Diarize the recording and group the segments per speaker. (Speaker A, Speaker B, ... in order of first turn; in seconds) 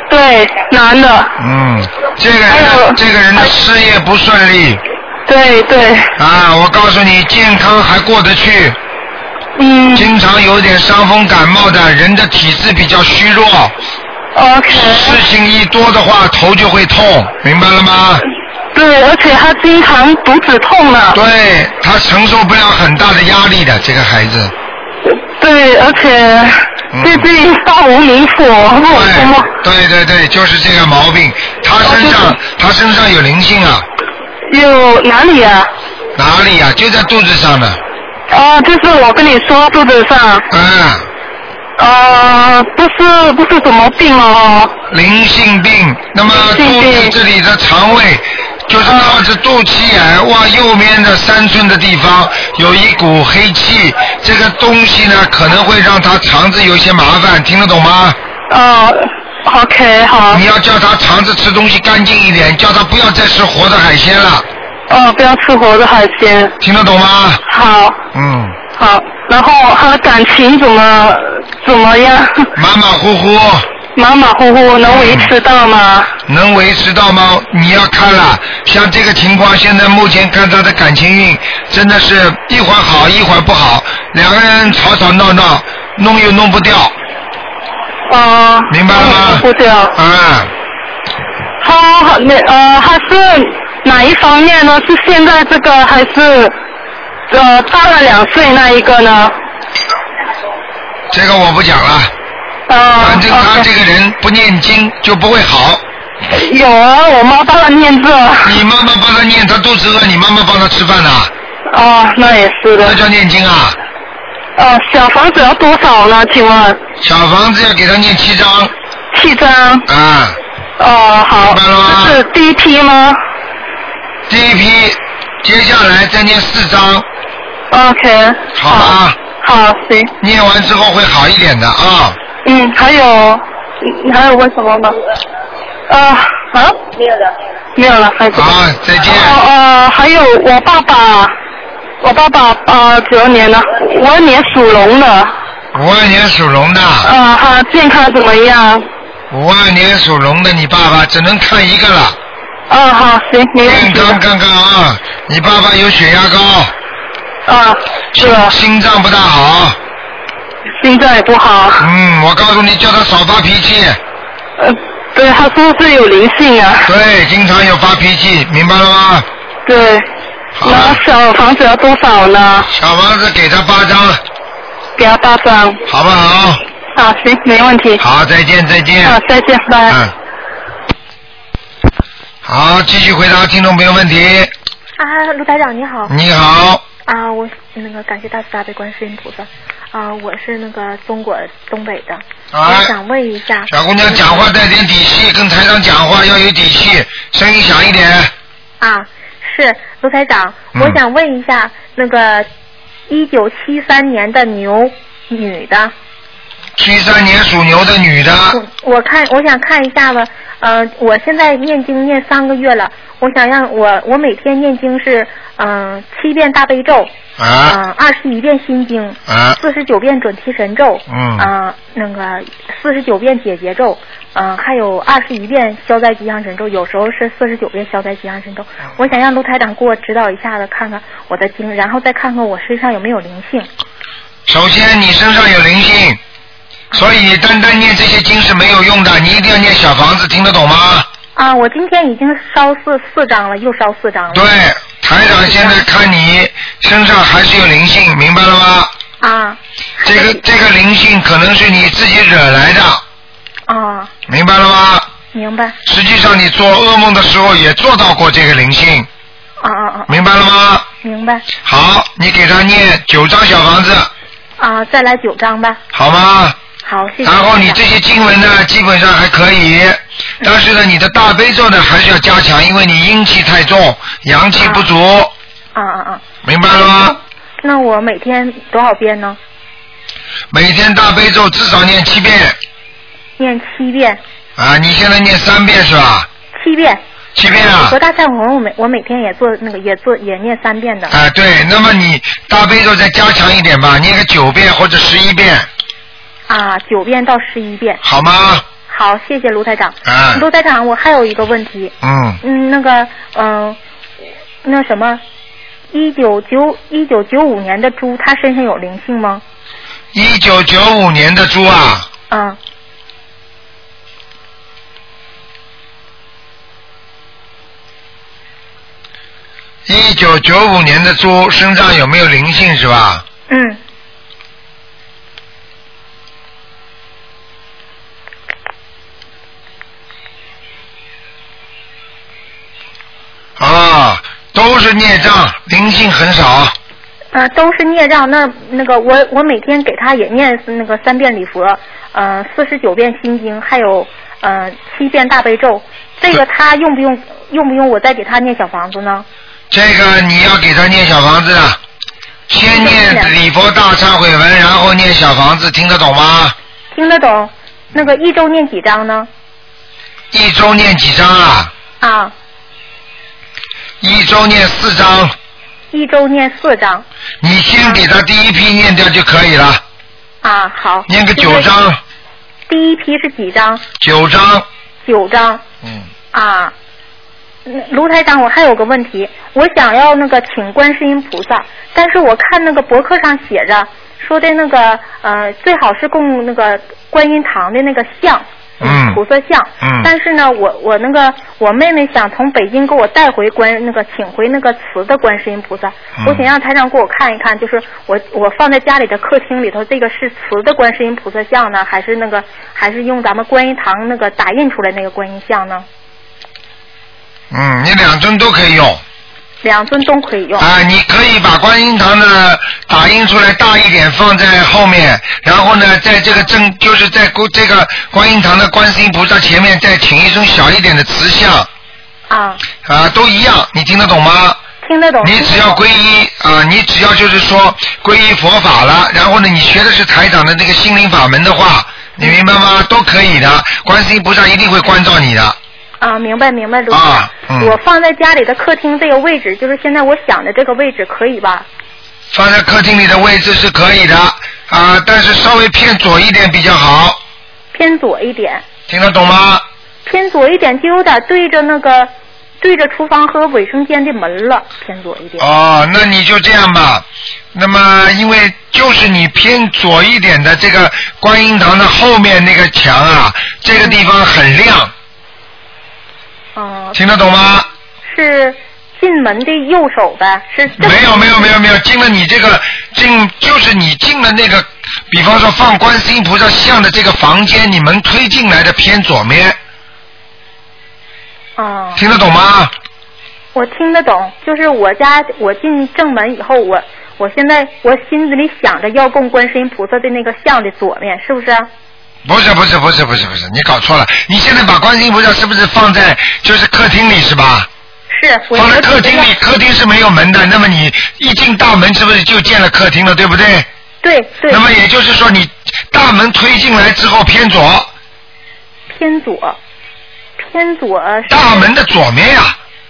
Speaker A: 0.1-1.3, 2.5-3.0, 5.3-6.1, 9.6-10.1, 14.3-15.2, 18.7-21.2, 25.1-29.5, 31.8-32.4, 34.5-35.7, 38.3-40.5, 41.8-44.8, 46.3-47.1, 48.9-49.2, 58.5-60.4, 64.9-66.5, 67.5-68.0, 68.7-72.5, 74.0-76.1, 88.1-90.0, 91.6-96.5, 97.3-99.3, 102.7-103.7, 106.3-108.6, 111.7-113.0, 114.6-116.8, 119.1-119.9, 120.8-123.2, 127.7-130.1, 132.4-135.0, 135.9-136.8, 137.8-138.5, 139.1-141.3, 142.0-145.3, 147.0-148.8, 152.7-154.2, 157.5-158.5, 160.8-161.9, 164.6-166.9, 169.7-170.1, 170.6-172.7, 175.0-175.8, 176.9-178.0, 179.0-180.0
Speaker B: 1.4-4.8, 6.2-8.8, 9.9-13.7, 14.7-18.2, 21.1-24.5, 26.9-27.3, 28.9-33.9, 36.2-37.8, 40.5-41.1, 44.9-58.2, 60.3-64.5, 66.6-67.4, 68.1-68.6, 72.6-73.7, 74.9-75.3, 76.3-86.9, 88.7-90.5, 101.1-102.1, 103.0-105.8, 108.4-111.3, 112.8-113.8, 117.0-118.7, 119.9-120.4, 121.5-122.2, 124.3-127.1, 128.6-129.2, 130.2-132.2, 138.3-139.4, 145.7-147.1, 149.3-152.2, 153.6-156.7, 158.2-159.8, 161.8-164.0, 166.8-169.3, 170.6-171.0, 172.7-174.2, 175.9-176.6, 178.0-179.2, 182.4-184.5, 186.1-186.8, 192.5-192.9, 193.7-198.3, 206.8-208.6, 217.4-217.8, 219.3-219.6, 221.1-221.5, 234.5-236.2, 236.9-241.1, 244.3-248.9, 250.0-253.0, 254.3-255.1, 255.9-259.1, 260.1-260.9, 261.6-264.1, 265.9-266.6, 267.2-275.3, 276.4-277.2, 280.5-282.6, 284.6-286.3, 287.4-288.0, 291.1-295.7, 298.0-298.6, 300.1-300.4, 302.0-302.4, 310.1-312.1, 319.9-323.2, 333.6-336.7, 349.7-351.8, 352.5-356.6, 360.3-361.7, 364.0-365.4, 367.4-369.8, 371.1-372.0, 374.0-374.7, 388.8-389.2, 389.8-390.1, 396.2-396.5, 407.5-409.0, 410.6-421.7, 422.9-424.6, 425.2-435.6, 436.9-437.8, 442.3-447.2, 448.9-449.6, 455.4-464.9, 466.9-467.7, 470.8-479.6, 482.0-482.7, 492.3-497.7, 498.5-503.7, 504.5-507.9, 511.3-512.6
Speaker C: 185.0-186.1, 187.1-194.5, 198.8-202.5, 203.1-205.9, 208.5-217.1, 217.7-233.7, 241.4-244.5, 245.3-245.8, 249.2-250.4, 253.7-254.1, 255.3-255.8, 259.6-260.1, 261.0-261.4, 264.6-265.8, 266.9-267.8, 274.6-274.9, 275.8-279.4, 283.4-284.2, 286.5-287.0, 287.5-291.1, 296.5-298.0, 298.9-303.8, 304.6-305.2, 305.9-309.4, 312.3-312.6, 323.5-323.8, 337.3-349.3, 352.7-353.3, 356.9-359.3, 362.0-362.3, 365.9-367.1, 370.4-371.7, 372.7-373.8, 375.0-375.6, 376.3-376.7, 377.7-405.9, 409.6-410.7, 422.3-422.6, 424.8-425.8, 436.0-441.7, 447.7-448.6, 450.1-452.1, 452.6-455.5, 463.7-464.0, 466.6-467.0, 468.1-471.6, 481.6-482.0, 483.5-491.7, 498.1-499.3, 504.0-504.7, 508.9-509.6, 510.4-511.7